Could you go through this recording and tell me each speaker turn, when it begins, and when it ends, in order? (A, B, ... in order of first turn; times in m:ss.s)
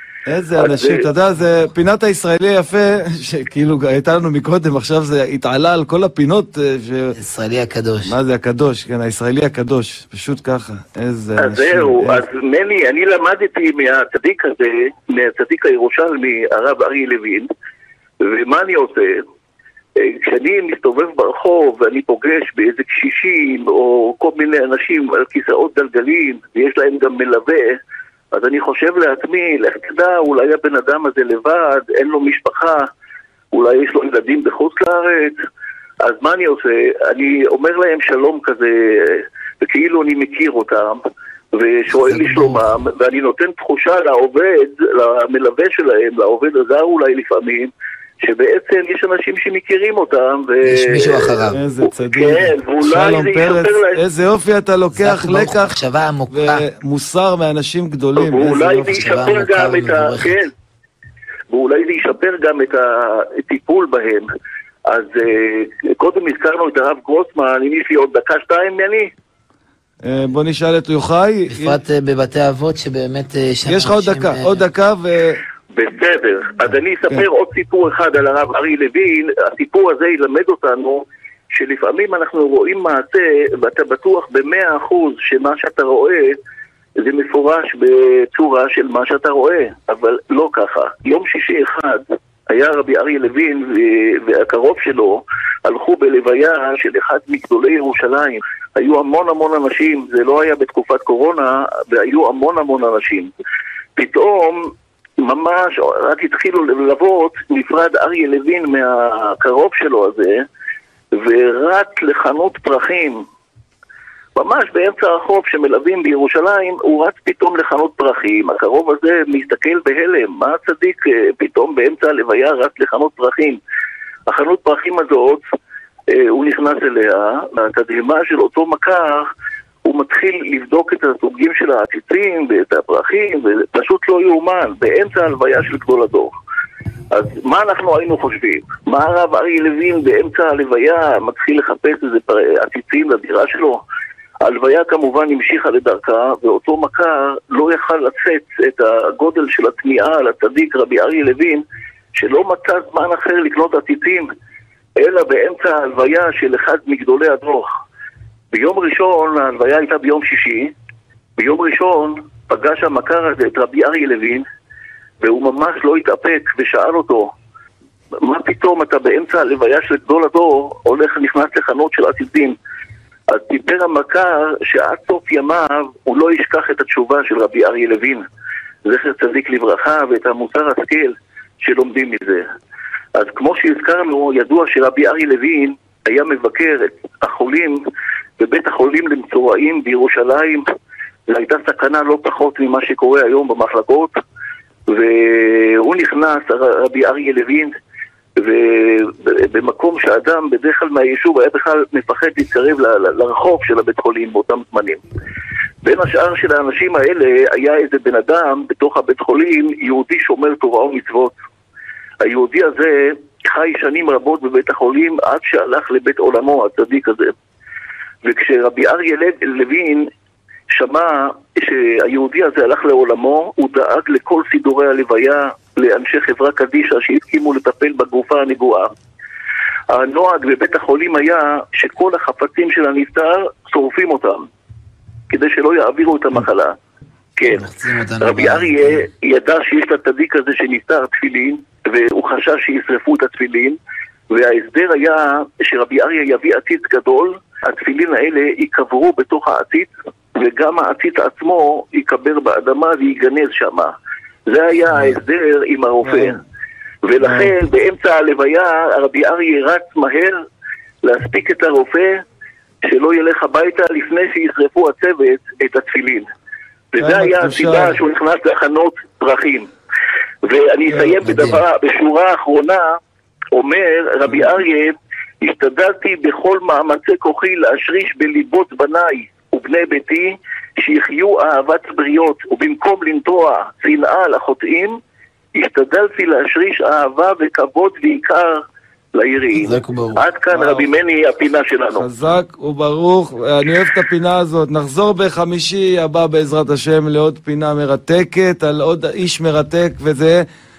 0:00.3-0:07.1 A
0:00.6-0:01.1 B
0:07.1-0:08.2 C
0:08.0-0:12.2 A
0:11.4-0:17.5 B
0:18.2-0:19.2 B
0:20.0-0:27.8 B
0:28.3-0:32.9 B
0:33.5-0:35.3 B
0:36.0-0:41.0 B
0:41.5-0:47.7 B
0:42.1-0:42.7 C
0:48.2-0:54.0 B
0:50.6-0:51.6 C
0:51.5-0:55.8 A
0:54.9-0:56.7 C
0:56.3-0:59.3 A
0:58.2-1:00.5 B
0:58.9-1:00.4 C
1:01.5-1:04.3 B
1:04.9-1:09.1 B
1:10.0-1:11.8 A
1:11.5-1:14.6 C
1:13.6-1:15.4 A
1:15.7-1:21.0 B
1:21.5-1:26.4 B
1:27.0-1:43.3 B
1:44.0-1:44.7 B
1:45.2-1:50.4 B
1:51.1-1:53.2 B
1:54.4-2:03.6 B
2:04.3-2:05.4 B
2:06.1-2:09.3 B
2:09.8-2:16.3 B
2:17.1-2:23.8 B
2:24.4-2:31.6 B
2:32.2-2:34.3 B
2:35.0-2:37.7 B
2:38.5-2:40.7 B
2:41.4-2:44.4 B
2:45.2-2:47.3 B
2:48.2-2:52.6 B
2:53.3-2:58.2 B
2:58.8-3:02.4 B
3:03.2-3:07.8 B
3:08.4-3:10.7 B
3:11.3-3:14.2 B
3:14.9-3:17.7 B
3:18.4-3:25.0 B
3:25.8-3:31.3 B
3:32.2-3:37.3 B
3:38.2-3:40.1 B
3:40.7-3:48.9 B
3:49.9-3:54.5 B
3:55.3-3:56.7 B
3:57.4-3:57.7 B
3:57.5-3:59.0 C
3:58.2-4:03.8 B
4:04.3-4:13.9 B
4:14.5-4:16.4 B
4:16.0-4:16.4 A
4:17.0-4:20.4 B
4:17.2-4:17.5 A
4:21.0-4:22.2 B
4:22.8-4:26.3 B
4:26.9-4:29.7 B
4:27.0-4:28.0 A
4:30.4-4:33.0 B
4:30.9-4:31.6 A
4:33.5-4:45.0 B
4:45.6-4:48.6 B
4:49.1-4:52.0 B
4:49.5-4:50.2 C
4:50.5-4:50.9 A
4:51.9-5:00.4 A